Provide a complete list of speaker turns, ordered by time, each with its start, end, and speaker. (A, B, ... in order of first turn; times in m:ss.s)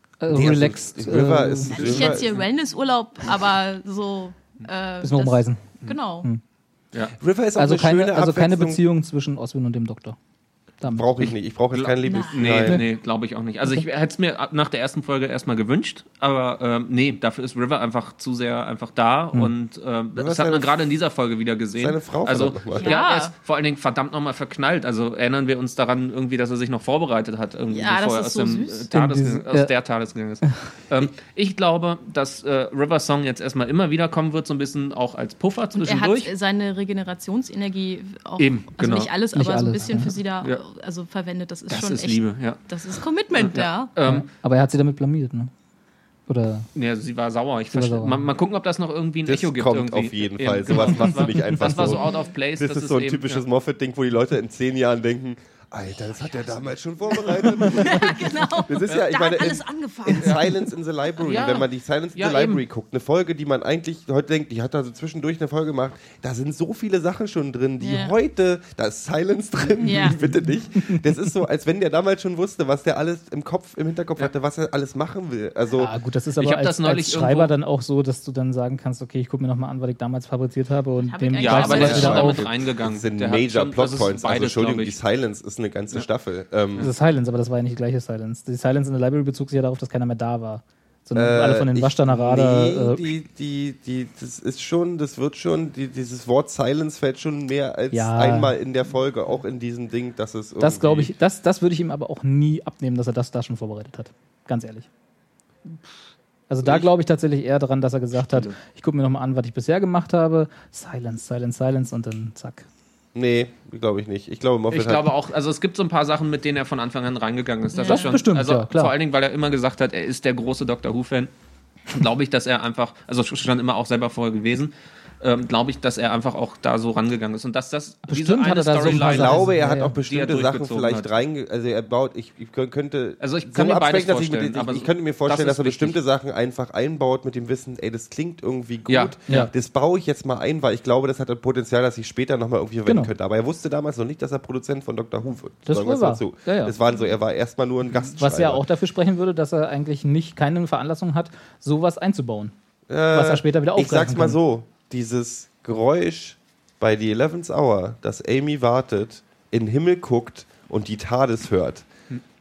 0:00.2-0:01.8 A
0:00.3-0:02.3 B
0:01.6-0:06.3 C
0:01.7-0:02.4 D
0:05.0-0:05.6 A
0:07.2-0:08.8 B
0:07.6-0:10.2 A
0:10.8-0:11.1 A
0:10.9-0:12.8 B
0:11.7-0:36.3 D
0:12.0-0:12.5 C
0:20.2-0:20.7 B
0:21.8-0:23.0 B
0:22.7-0:23.3 C
0:27.7-0:28.9 C
0:28.9-0:29.7 A
0:30.4-0:30.7 A
0:35.8-0:43.9 C
0:38.4-0:39.1 D
0:39.3-0:40.1 A
0:41.7-0:42.6 D
0:43.3-0:44.3 D
0:44.0-0:45.5 A
0:46.3-0:46.7 A
0:46.7-0:53.4 D
0:47.7-0:48.3 A
0:49.2-0:52.0 B
0:50.8-0:51.9 A
0:51.9-0:52.3 C
0:52.6-1:15.9 B
0:57.1-1:00.7 C
1:01.2-1:02.6 D
1:07.8-1:08.1 C
1:09.8-1:10.2 C
1:09.8-1:11.2 A
1:15.8-1:22.4 A
1:16.4-1:17.5 D
1:21.0-1:22.4 C
1:21.4-1:25.0 D
1:21.6-1:26.9 B
1:26.8-1:33.1 A
1:31.1-1:41.1 B
1:37.9-1:38.5 A
1:40.6-1:44.9 A
1:46.5-1:52.6 A
1:53.1-1:55.1 B
1:54.7-2:01.3 D
1:57.7-1:58.2 C
1:57.8-1:58.9 A
2:01.9-2:11.1 D
2:08.0-2:09.9 A
2:08.8-2:28.6 B
2:13.2-2:16.0 D
2:18.9-2:19.5 D
2:22.8-2:23.1 A
2:25.7-2:26.7 A
2:28.2-2:32.5 A
2:32.9-2:41.8 B
2:33.1-2:34.4 A